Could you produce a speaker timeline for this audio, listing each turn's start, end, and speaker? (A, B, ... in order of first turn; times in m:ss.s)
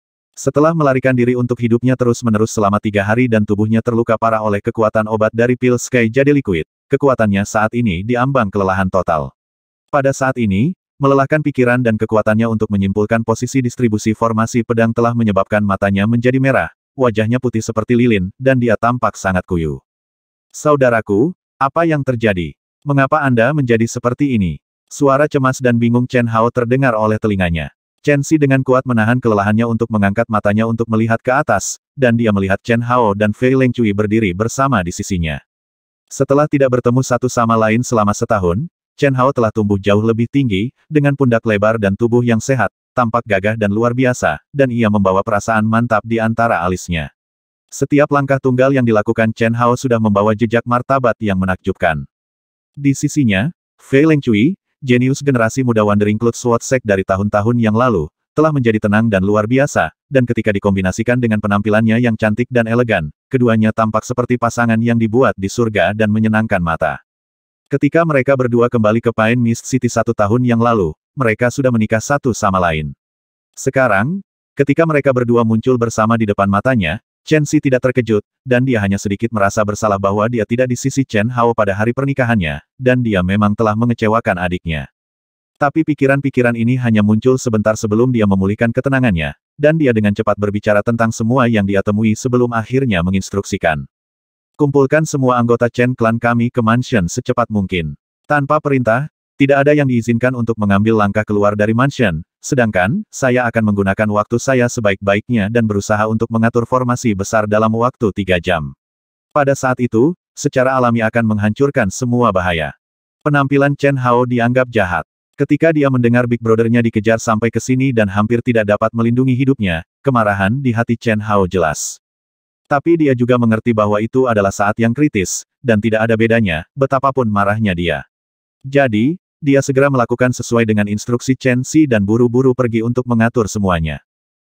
0:00.4-0:09.3 A
0:09.9-0:19.8 A
0:20.6-0:35.4 A
0:36.1-0:47.1 A
0:47.7-0:52.1 A
0:52.8-1:07.0 A
1:07.7-1:12.9 A
1:13.6-1:24.9 A
1:25.6-1:33.9 A
1:34.6-1:48.7 A
1:49.4-1:52.7 A
1:53.2-2:02.0 A
2:02.7-2:08.0 A
2:08.7-2:14.0 A